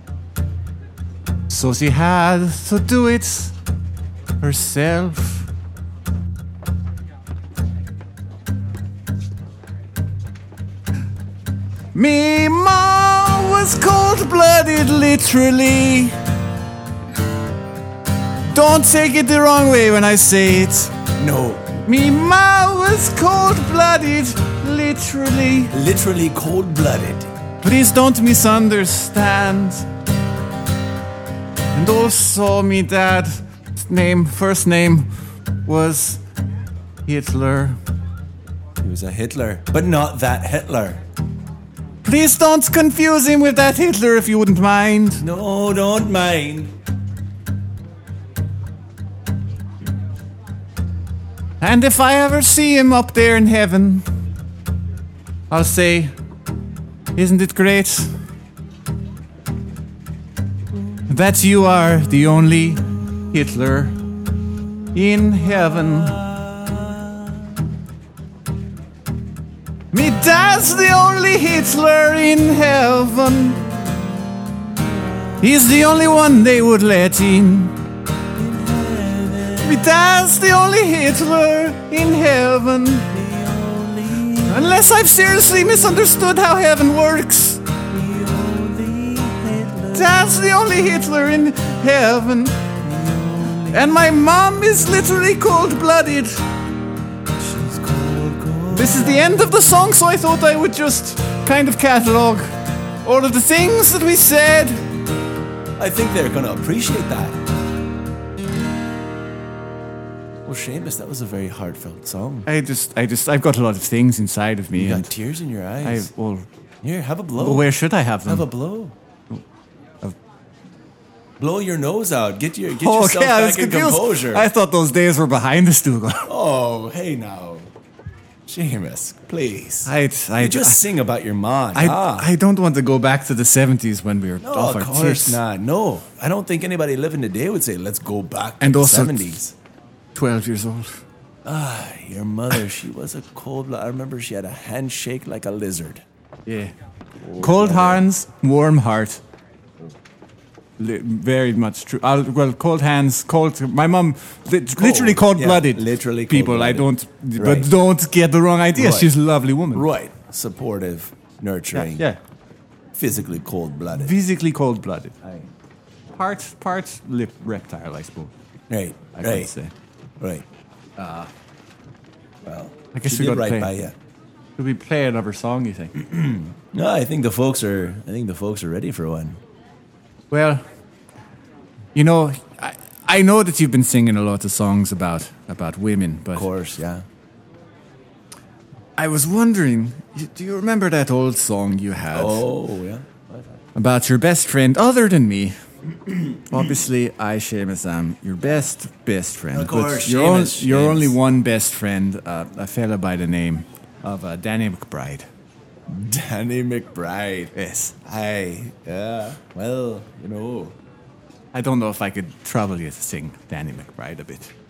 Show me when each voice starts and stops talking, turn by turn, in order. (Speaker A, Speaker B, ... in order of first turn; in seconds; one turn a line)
Speaker A: 1.5-3.5
Speaker A: 4.4-5.5
Speaker A: 11.9-16.2
Speaker A: 18.5-20.9
Speaker B: 21.2-21.7
Speaker A: 21.8-25.7
Speaker B: 25.7-27.3
Speaker A: 27.6-29.9
Speaker A: 31.7-35.1
Speaker A: 35.6-36.2
Speaker A: 37.0-37.8
Speaker B: 38.8-41.0
Speaker A: 42.0-45.2
Speaker B: 45.2-46.7
Speaker A: 51.6-54.1
Speaker A: 55.5-56.1
Speaker A: 57.1-58.2
Speaker A: 61.1-64.0
Speaker A: 64.9-66.2
Speaker B: 66.1-67.5
Speaker A: 69.9-73.6
Speaker B: 74.4-75.4
Speaker A: 75.4-77.8
Speaker B: 78.3-79.9
Speaker A: 79.6-83.1
Speaker B: 83.1-84.8
Speaker A: 84.5-87.6
Speaker B: 87.9-90.2
Speaker A: 89.9-92.6
Speaker B: 92.8-94.1
Speaker A: 93.7-96.4
Speaker B: 97.4-99.5
Speaker A: 98.7-104.8
Speaker B: 105.8-107.4
Speaker B: 110.5-112.5
Speaker A: 112.5-115.1
Speaker B: 114.7-116.1
Speaker A: 115.8-116.5
Speaker B: 116.8-117.7
Speaker A: 117.4-118.5
Speaker B: 118.3-119.0
Speaker B: 121.4-124.5
Speaker A: 122.7-126.3
Speaker B: 126.3-127.7
Speaker B: 128.5-132.3
Speaker A: 129.9-130.8
Speaker A: 131.7-135.4
Speaker B: 134.4-139.5
Speaker A: 138.6-139.4
Speaker A: 140.2-141.0
Speaker B: 141.4-146.0
Speaker A: 146.5-146.7
Speaker B: 147.2-148.1
Speaker A: 147.4-149.2
Speaker A: 150.8-159.9
Speaker B: 154.8-157.7
Speaker B: 158.8-159.1
Speaker B: 159.7-162.1
Speaker A: 161.7-162.2
Speaker B: 162.9-164.1
Speaker A: 163.9-165.2
Speaker B: 165.2-165.5
Speaker A: 166.1-168.3
Speaker B: 168.7-169.5
Speaker A: 169.2-169.7
Speaker B: 170.2-170.5
Speaker A: 171.0-171.3
Speaker B: 172.4-173.9
Speaker A: 172.9-173.7
Speaker A: 174.6-175.9
Speaker B: 175.9-179.4
Speaker A: 180.3-180.6
Speaker A: 181.9-186.5
Speaker B: 186.3-187.1
Speaker A: 189.0-192.5
Speaker B: 192.1-193.6
Speaker A: 193.8-195.6
Speaker B: 196.1-196.6
Speaker A: 196.5-205.3
Speaker B: 199.5-201.2
Speaker B: 205.9-210.8
Speaker A: 207.6-207.9
Speaker A: 211.5-214.5